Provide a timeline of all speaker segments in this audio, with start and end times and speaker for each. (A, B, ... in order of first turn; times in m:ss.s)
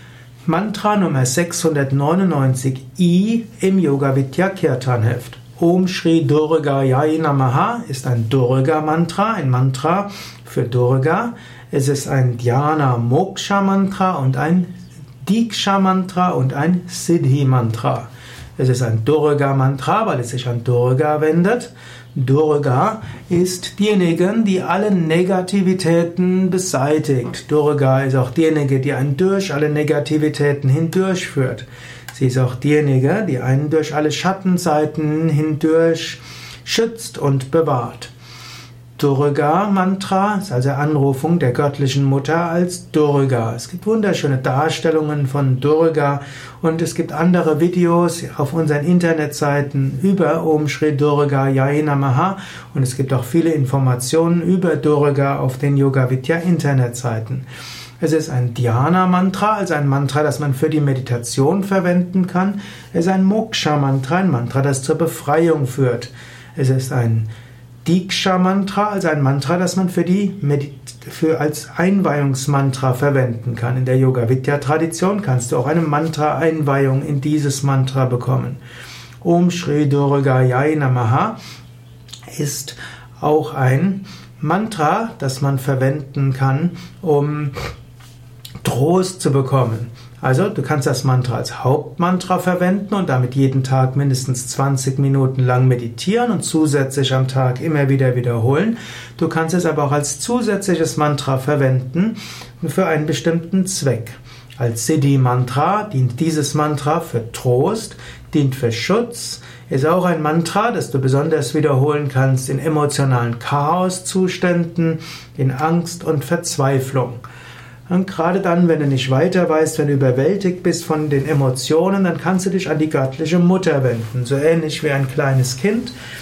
0:00.4-0:38.1 A
0:39.0-0:57.4 A
0:58.0-1:07.3 A
1:07.8-1:18.6 A
1:19.2-1:21.4 A
1:22.3-1:27.7 A
1:28.6-1:57.2 A
1:57.9-2:05.9 A